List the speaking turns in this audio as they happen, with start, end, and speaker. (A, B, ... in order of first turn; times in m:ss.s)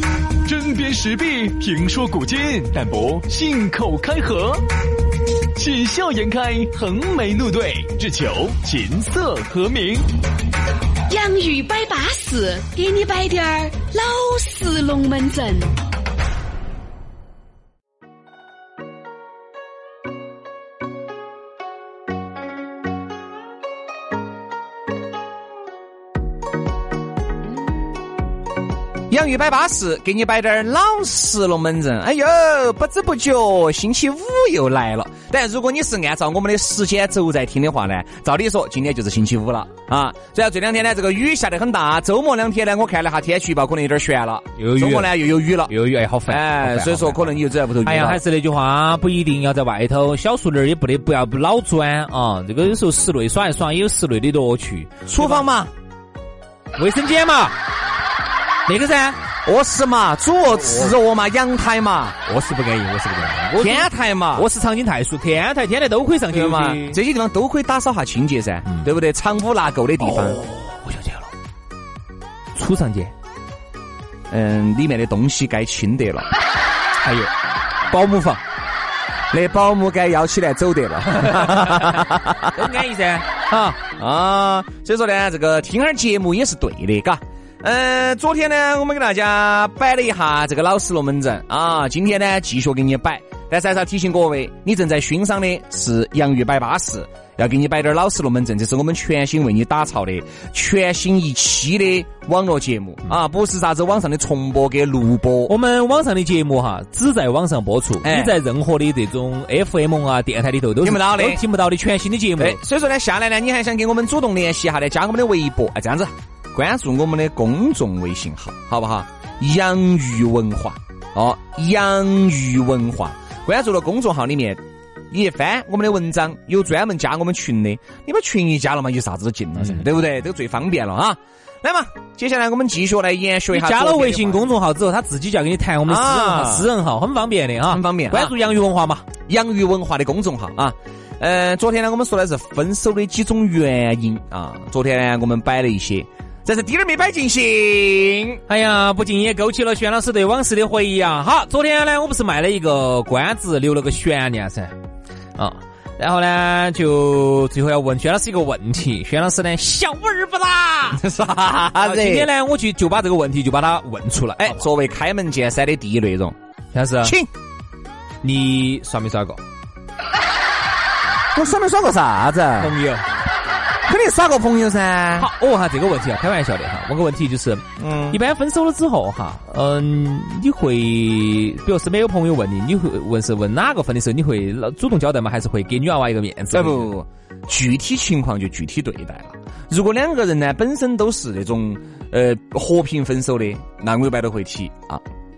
0:00.4-0:04.7 A
0:05.5-0:10.1 A
0:11.1-0:15.8 B
0:29.1-0:45.7 C
0:44.6-0:55.4 D
0:46.3-0:48.2 C
0:55.1-0:55.7 C
0:56.8-0:57.6 D
0:58.7-0:59.2 D
0:59.4-1:02.2 C
1:02.3-1:07.0 D
1:03.6-1:04.5 C
1:06.3-1:10.4 C
1:10.0-1:11.3 D
1:12.6-1:13.1 D
1:14.3-1:16.3 C
1:17.0-1:17.3 D
1:17.9-1:18.4 C
1:19.3-1:22.5 C
1:21.2-1:23.8 D
1:23.8-1:45.5 C
1:45.5-1:52.6 D
1:48.0-1:48.4 C
1:50.8-1:51.4 C
1:52.4-2:14.5 C
2:09.6-2:09.8 D
2:13.5-2:19.1 D
2:15.9-2:16.7 C
2:17.7-2:18.4 C
2:19.3-2:28.4 C
2:28.5-2:34.8 D
2:35.4-2:41.0 D
2:41.0-2:42.3 C
2:41.8-2:44.7 D
2:44.4-2:46.4 C
2:46.7-2:47.2 D
2:47.0-2:47.3 C
2:48.2-2:49.4 D
2:51.3-2:52.8 C
2:52.6-2:53.0 D
2:53.8-2:55.3 C
2:55.2-3:06.9 D
2:57.8-2:58.2 C
3:06.5-3:15.0 C